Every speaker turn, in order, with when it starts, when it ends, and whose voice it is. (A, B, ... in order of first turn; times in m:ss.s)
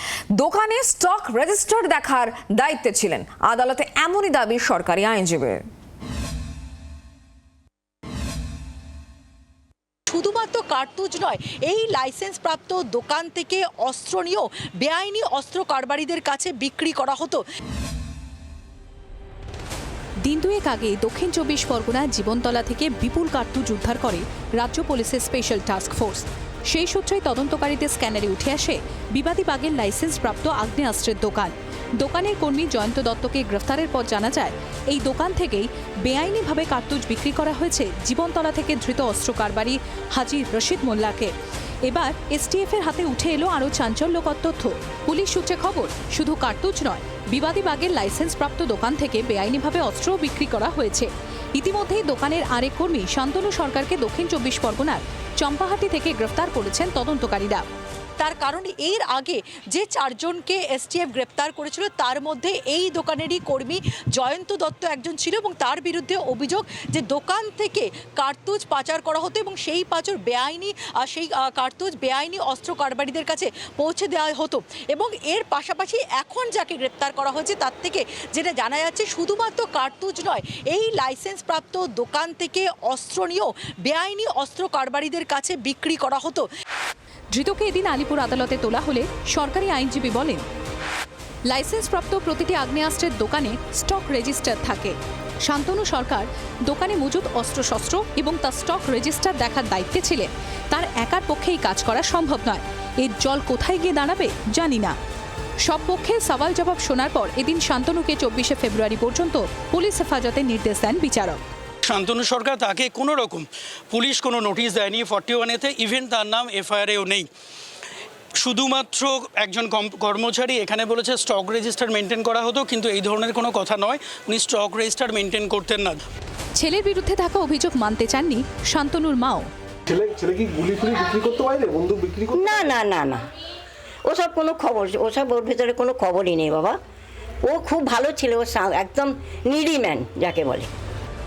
0:00.4-0:05.6 A
0:10.1-0:17.4 B
0:20.2-0:41.3 C
0:41.9-0:57.6 C
0:58.2-1:26.5 B
1:27.3-1:30.4 C
1:31.5-1:45.0 C
1:45.6-1:51.4 C
1:51.9-1:57.3 D
1:58.4-2:06.0 D
2:06.6-2:09.5 C
2:09.9-2:12.8 E
2:12.3-2:13.3 F
2:14.1-2:16.8 F
2:17.5-2:20.7 F